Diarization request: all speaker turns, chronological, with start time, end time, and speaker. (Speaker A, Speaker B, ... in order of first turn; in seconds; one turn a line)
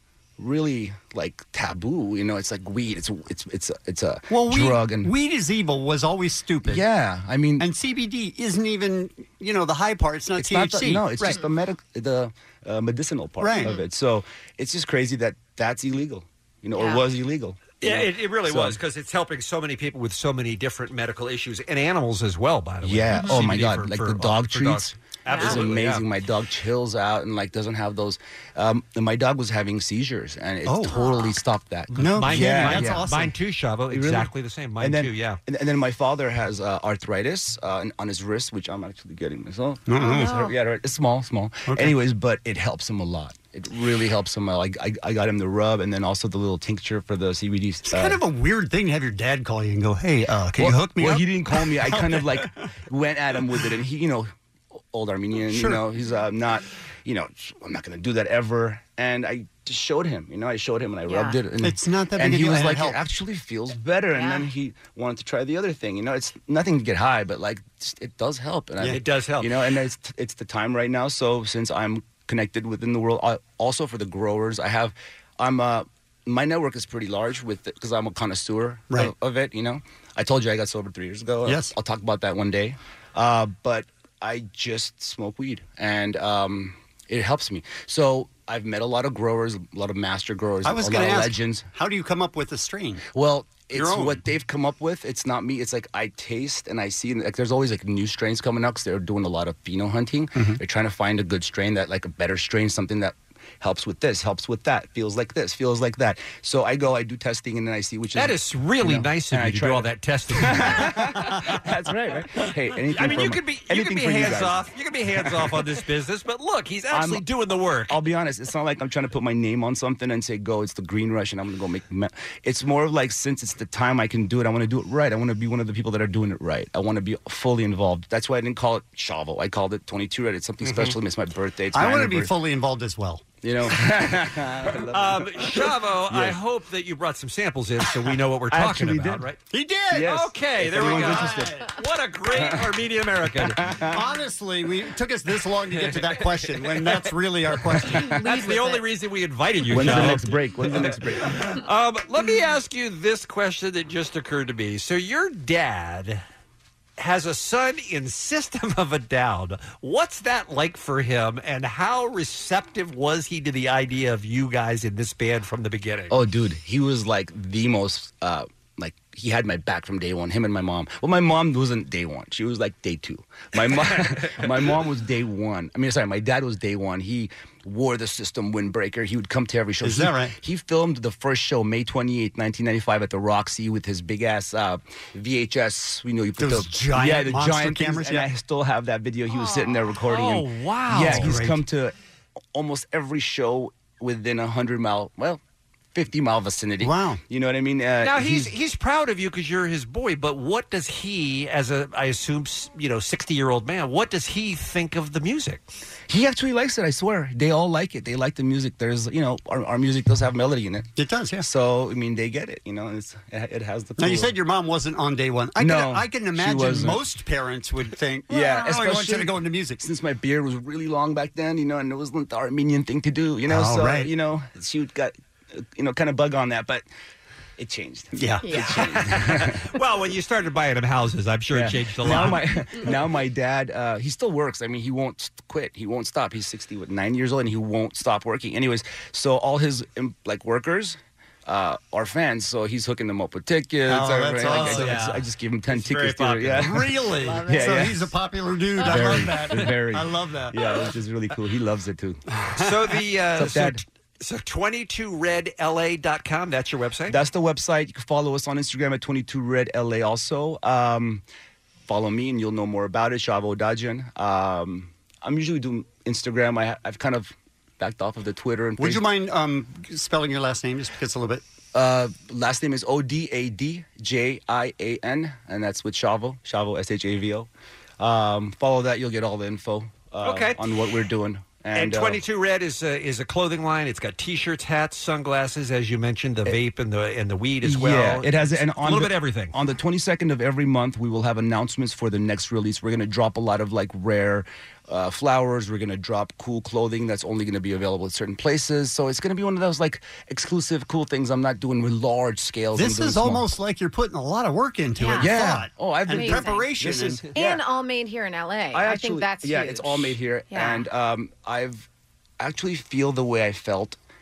Speaker A: 0.4-5.1
Speaker B: 4.3-6.8
Speaker A: 6.6-7.7
Speaker B: 7.6-11.4
Speaker A: 10.3-18.8
Speaker B: 13.4-13.8
Speaker C: 13.6-13.8
Speaker C: 16.8-17.1
Speaker D: 17.8-26.1
Speaker A: 22.8-33.1
Speaker C: 23.1-23.4
Speaker C: 25.3-25.6
Speaker B: 30.6-31.0
Speaker C: 30.9-31.4
Speaker B: 31.9-33.3
Speaker D: 32.1-35.4
Speaker A: 33.9-48.2
Speaker B: 39.9-40.5
Speaker C: 40.0-40.5
Speaker B: 41.7-42.0
Speaker B: 47.9-52.7
Speaker A: 50.6-54.3
Speaker A: 54.9-91.7
Speaker B: 55.5-55.8
Speaker C: 61.1-61.4
Speaker B: 61.6-63.0
Speaker C: 64.1-64.5
Speaker D: 68.9-69.5
Speaker B: 81.5-81.7
Speaker B: 90.6-93.0
Speaker A: 93.1-115.6
Speaker B: 93.7-94.2
Speaker B: 100.3-100.6
Speaker D: 108.2-111.0
Speaker D: 112.9-118.0
Speaker A: 116.9-117.2
Speaker A: 117.9-132.3
Speaker B: 130.6-130.9
Speaker B: 131.7-133.3
Speaker A: 133.4-136.4
Speaker D: 134.9-139.4
Speaker A: 138.5-139.3
Speaker B: 139.5-140.2
Speaker A: 139.9-141.6
Speaker D: 140.0-143.7
Speaker B: 140.7-141.6
Speaker A: 142.3-142.7
Speaker A: 143.3-144.0
Speaker B: 143.9-148.1
Speaker D: 145.9-146.2
Speaker C: 148.0-148.8
Speaker D: 148.2-156.2
Speaker A: 149.7-151.5
Speaker B: 149.8-150.2
Speaker D: 157.0-166.2
Speaker A: 166.1-191.9
Speaker B: 179.8-180.3
Speaker B: 186.4-188.3
Speaker C: 189.3-189.6
Speaker D: 190.1-191.3
Speaker B: 190.9-191.6
Speaker A: 192.5-195.4
Speaker A: 195.9-198.5
Speaker B: 196.8-197.2
Speaker D: 198.0-205.7
Speaker A: 206.1-210.9
Speaker B: 210.9-211.5
Speaker A: 211.4-214.3
Speaker B: 214.0-219.8
Speaker A: 215.6-217.1
Speaker A: 218.3-226.8
Speaker B: 223.4-224.1
Speaker A: 227.6-229.6
Speaker B: 228.1-228.7
Speaker C: 228.4-228.8
Speaker D: 228.7-232.4
Speaker A: 231.5-248.1
Speaker B: 232.0-232.4
Speaker B: 243.9-245.1
Speaker D: 244.4-246.7
Speaker B: 246.6-250.9
Speaker A: 248.8-252.2
Speaker B: 252.4-252.8
Speaker D: 252.6-257.2
Speaker A: 253.3-253.8
Speaker A: 257.1-261.2
Speaker A: 261.9-269.0
Speaker B: 268.8-271.4
Speaker A: 271.7-282.2
Speaker D: 280.2-280.6
Speaker D: 281.7-289.6
Speaker A: 287.6-303.5
Speaker B: 302.7-307.2
Speaker C: 305.0-305.3
Speaker A: 305.2-307.6
Speaker C: 306.1-306.7
Speaker C: 307.3-310.9
Speaker A: 308.7-311.9
Speaker A: 312.4-314.0